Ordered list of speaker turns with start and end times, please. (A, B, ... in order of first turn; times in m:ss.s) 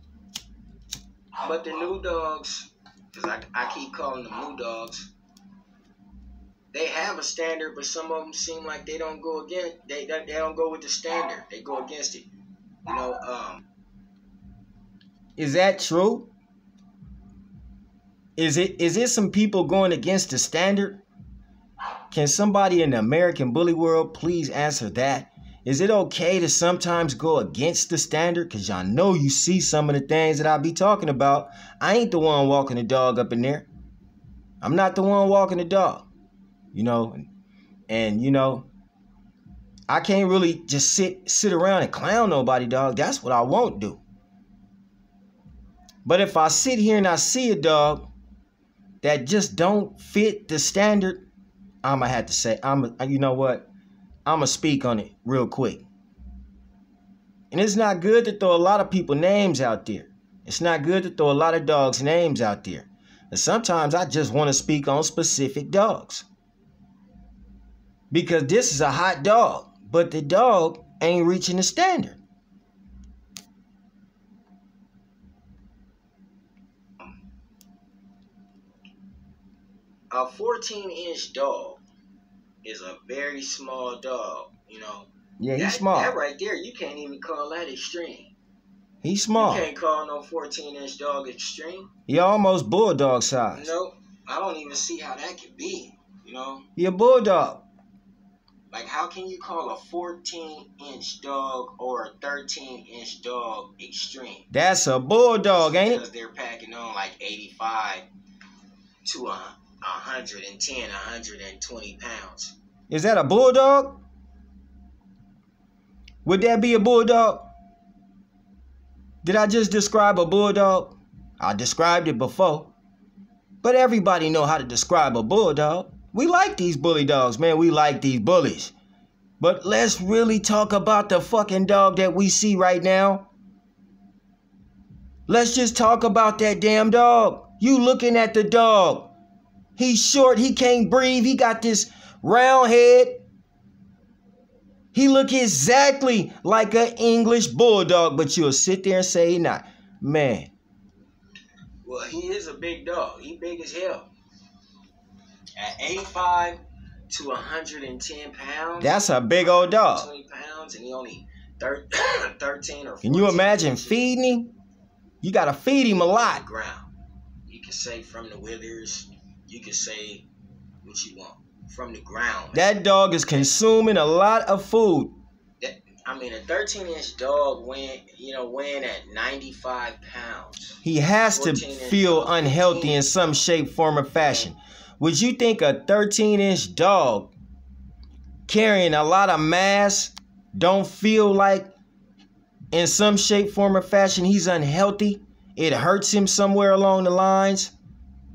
0:01.4-0:05.1 A
0:06.7-0:12.3 A
0:12.8-0:13.6 A
0:15.4-0:16.3 B
0:18.4-0:21.0 B
0:22.1-0:33.7 B
0:34.6-0:36.1 B
0:36.7-0:37.2 B
0:37.9-0:38.7 B
0:39.9-0:44.0 B
0:46.0-0:48.1 B
0:49.0-0:51.2 B
0:51.8-0:53.7 B
0:54.2-0:55.8 B
0:57.5-1:06.2 B
1:08.1-1:12.2 B
1:20.1-1:21.8 A
1:22.6-1:28.3 A
1:25.4-1:26.1 B
1:29.0-1:29.7 B
1:29.3-1:31.9 A
1:32.1-1:33.7 B
1:33.5-1:36.6 A
1:36.8-1:37.6 B
1:38.7-1:44.5 A
1:44.5-1:46.0 B
1:45.5-1:48.1 A
1:49.0-1:52.5 A
1:52.9-1:54.0 B
1:56.2-1:57.5 B
1:59.2-2:02.7 B
2:03.6-2:08.7 B
2:09.4-2:13.3 B
2:15.3-2:19.1 B
2:19.8-2:23.2 B
2:24.9-2:30.5 B
2:31.8-2:34.1 A
2:35.6-2:44.0 A
2:38.8-2:40.1 B
2:43.0-2:44.5 B
2:45.2-2:46.4 B
2:46.1-2:46.9 A
2:47.5-2:50.2 A
2:50.8-2:52.7 A
2:52.5-2:55.2 B
2:53.3-2:53.5 A
2:55.6-3:00.8 A
3:00.8-3:07.3 B
3:01.3-3:03.0 A
3:08.5-3:11.7 B
3:12.7-3:17.7 B